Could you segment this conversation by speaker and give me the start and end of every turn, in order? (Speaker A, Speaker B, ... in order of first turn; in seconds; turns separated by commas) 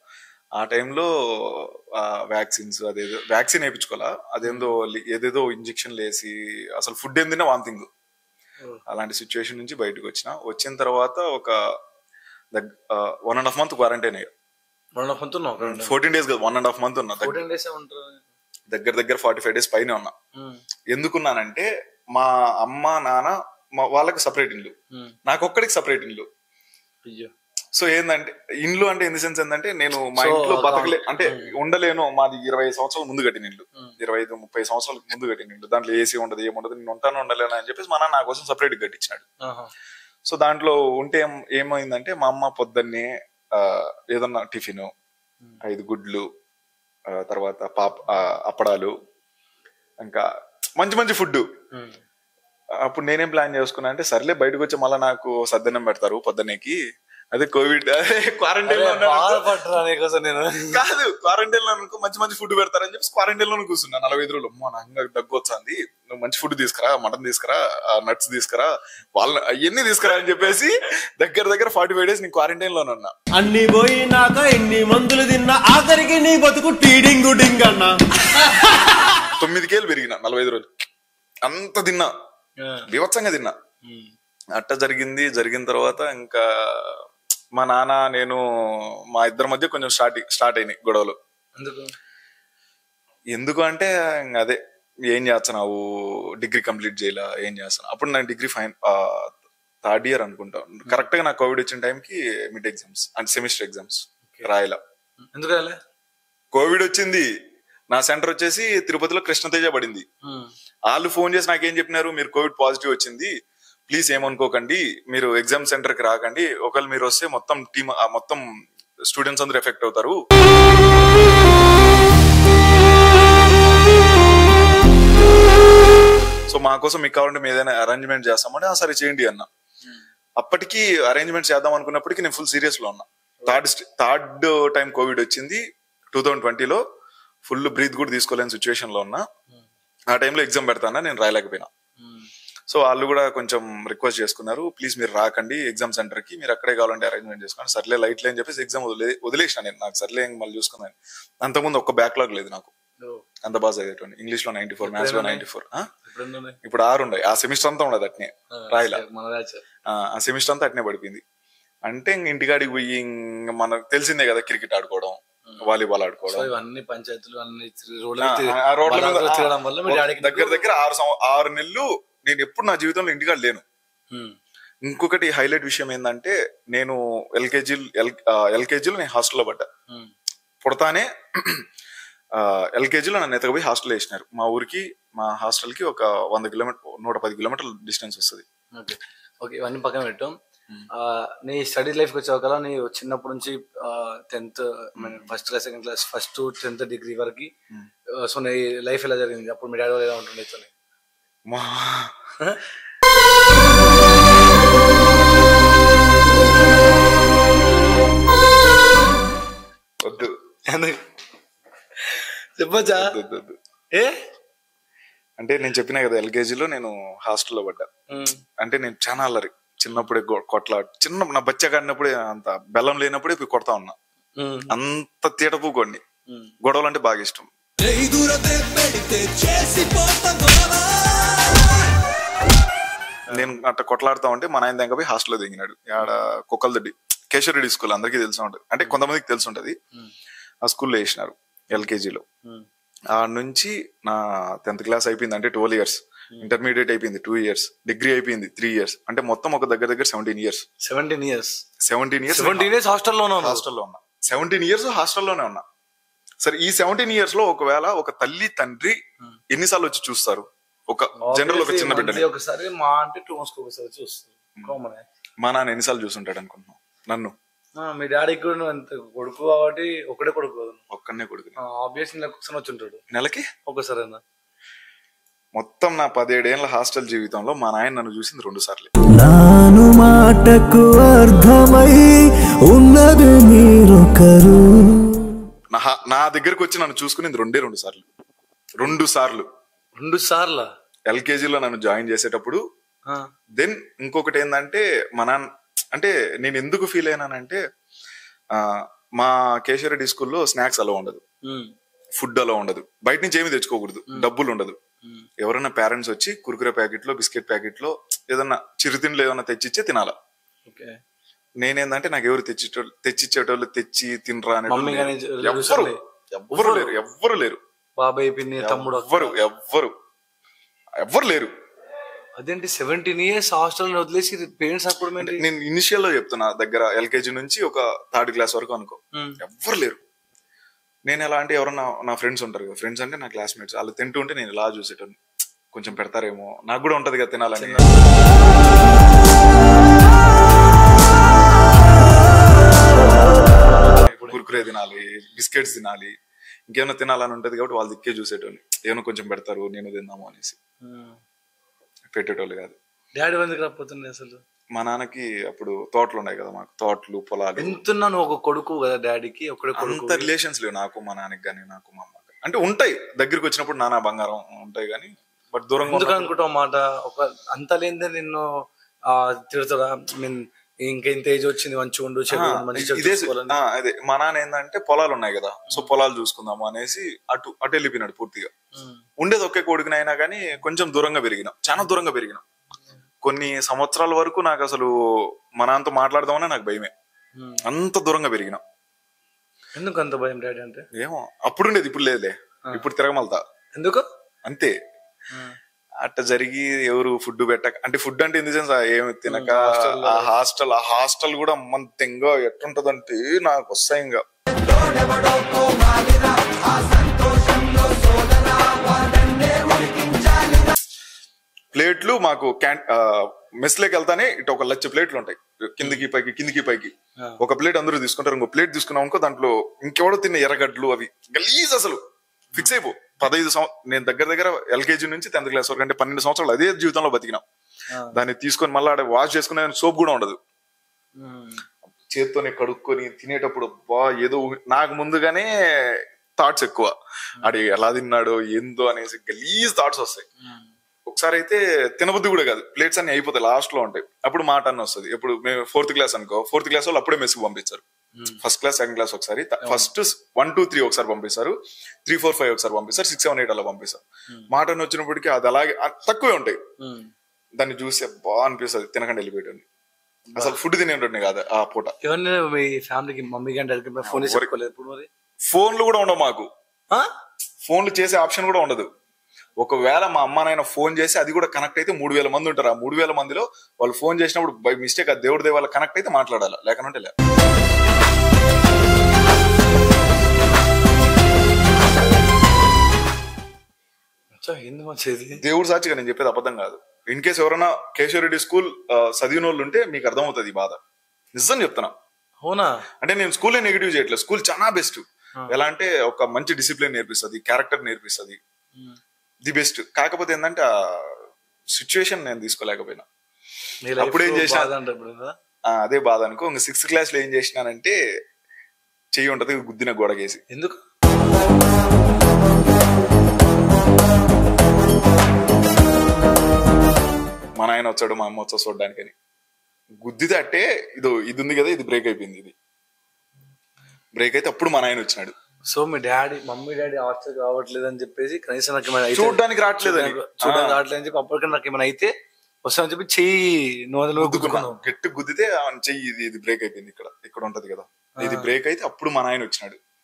Speaker A: 0.6-7.9, Speaker B: 4.4-4.8, Speaker A: 8.9-11.6, Speaker A: 12.5-14.3, Speaker B: 15.0-16.0, Speaker A: 15.6-17.4, Speaker B: 17.2-18.2, Speaker A: 18.7-20.1, Speaker A: 20.9-24.7, Speaker A: 25.3-26.3, Speaker B: 27.1-27.3, Speaker A: 27.7-39.3, Speaker B: 30.2-31.5, Speaker B: 39.4-39.7, Speaker A: 40.3-44.9, Speaker A: 45.6-46.3, Speaker A: 47.1-48.9, Speaker A: 50.8-51.5, Speaker B: 51.7-52.0, Speaker A: 52.8-56.8, Speaker A: 57.3-59.6, Speaker B: 58.7-60.8, Speaker A: 60.7-73.1, Speaker C: 73.4-79.1, Speaker A: 79.4-80.9, Speaker A: 81.4-82.1, Speaker A: 82.9-83.6, Speaker B: 83.9-84.1, Speaker A: 84.6-87.0, Speaker A: 87.5-88.4, Speaker A: 89.1-91.2, Speaker B: 91.6-91.9, Speaker A: 93.3-95.8, Speaker A: 96.4-104.8, Speaker B: 105.3-105.8, Speaker A: 106.5-107.3, Speaker A: 107.9-110.0, Speaker B: 110.2-110.5, Speaker A: 110.9-113.3, Speaker A: 113.9-118.4, Speaker A: 119.1-120.2, Speaker A: 126.5-129.5, Speaker A: 130.4-136.8, Speaker A: 137.5-139.2, Speaker A: 140.1-141.7, Speaker B: 142.0-142.3, Speaker A: 142.7-152.7, Speaker A: 153.4-155.9, Speaker B: 154.8-155.4, Speaker B: 156.1-156.6, Speaker A: 156.6-159.0, Speaker B: 158.6-159.6, Speaker A: 159.9-161.2, Speaker A: 161.9-166.5, Speaker B: 166.3-170.7, Speaker A: 168.2-173.6, Speaker A: 174.8-179.7, Speaker A: 180.6-181.7, Speaker A: 182.3-188.4, Speaker B: 188.8-190.4, Speaker B: 190.9-197.5, Speaker A: 195.0-195.3, Speaker B: 198.1-200.7, Speaker A: 201.5-202.2, Speaker A: 210.0-210.4, Speaker B: 210.7-211.0, Speaker B: 212.0-213.1, Speaker A: 212.8-213.6, Speaker A: 215.4-217.9, Speaker B: 218.1-218.4, Speaker A: 218.6-224.0, Speaker B: 224.4-224.8, Speaker A: 224.7-226.0, Speaker A: 226.6-227.5, Speaker D: 227.8-231.7, Speaker A: 233.3-239.8, Speaker A: 240.7-242.2, Speaker A: 243.1-250.7, Speaker B: 250.8-251.6, Speaker A: 251.8-252.8, Speaker B: 252.3-253.6, Speaker A: 253.4-255.7, Speaker A: 256.4-259.0, Speaker A: 259.5-262.3, Speaker B: 261.2-265.0, Speaker A: 265.4-267.3, Speaker B: 267.8-270.8, Speaker A: 270.9-271.6, Speaker B: 271.6-273.0, Speaker A: 273.1-273.5, Speaker B: 273.7-274.2, Speaker A: 275.6-278.9, Speaker D: 279.1-285.4, Speaker A: 285.7-288.1, Speaker A: 288.8-289.5, Speaker B: 290.0-290.7, Speaker A: 291.1-292.6, Speaker A: 293.6-297.6, Speaker A: 298.5-301.2, Speaker B: 301.5-301.7, Speaker A: 302.2-304.8, Speaker A: 305.4-310.1, Speaker B: 310.7-311.0, Speaker A: 311.6-317.6, Speaker B: 314.7-316.9, Speaker B: 318.0-319.4, Speaker A: 318.6-319.9, Speaker A: 321.0-321.5, Speaker B: 322.4-325.4, Speaker A: 325.2-330.0, Speaker A: 331.1-335.2, Speaker A: 335.7-338.0, Speaker B: 337.6-338.2, Speaker B: 342.9-344.4, Speaker A: 344.1-346.1, Speaker A: 346.7-350.6, Speaker B: 350.8-351.2, Speaker A: 352.1-352.8, Speaker B: 353.2-354.4, Speaker A: 354.8-357.8, Speaker B: 357.6-360.3, Speaker A: 359.8-366.3, Speaker B: 365.9-373.6, Speaker A: 372.3-378.5, Speaker B: 378.8-379.0, Speaker A: 379.2-382.4, Speaker A: 383.2-384.9, Speaker A: 385.6-386.9, Speaker B: 387.4-387.6, Speaker A: 387.6-388.6, Speaker B: 389.8-390.9, Speaker A: 390.9-393.4, Speaker B: 393.8-394.1, Speaker A: 394.4-394.7, Speaker A: 396.0-404.2, Speaker B: 399.3-400.3, Speaker D: 404.8-410.6, Speaker A: 411.7-422.0, Speaker A: 422.6-427.4, Speaker A: 428.1-430.4, Speaker B: 431.2-431.6, Speaker A: 432.1-440.3, Speaker B: 440.4-440.7, Speaker A: 441.1-447.8, Speaker A: 448.4-451.6, Speaker B: 449.6-449.9, Speaker A: 452.1-456.6, Speaker B: 456.8-457.1, Speaker A: 457.6-459.7, Speaker A: 460.4-461.9, Speaker B: 462.0-465.1, Speaker A: 464.0-464.5, Speaker A: 465.5-466.5, Speaker A: 467.7-468.9, Speaker A: 469.6-477.1, Speaker B: 484.4-485.4, Speaker A: 485.4-490.8, Speaker A: 491.3-491.9, Speaker B: 492.4-492.7, Speaker A: 493.0-498.4, Speaker A: 499.4-501.2, Speaker A: 501.7-503.1, Speaker B: 503.9-505.3, Speaker A: 504.0-504.7, Speaker A: 505.7-508.0, Speaker A: 509.1-510.4, Speaker B: 510.5-510.8, Speaker A: 517.6-519.1, Speaker A: 520.0-522.5, Speaker A: 524.1-525.4, Speaker B: 525.7-532.1, Speaker A: 529.1-530.8, Speaker B: 532.6-534.8, Speaker A: 534.2-539.8, Speaker B: 538.2-538.5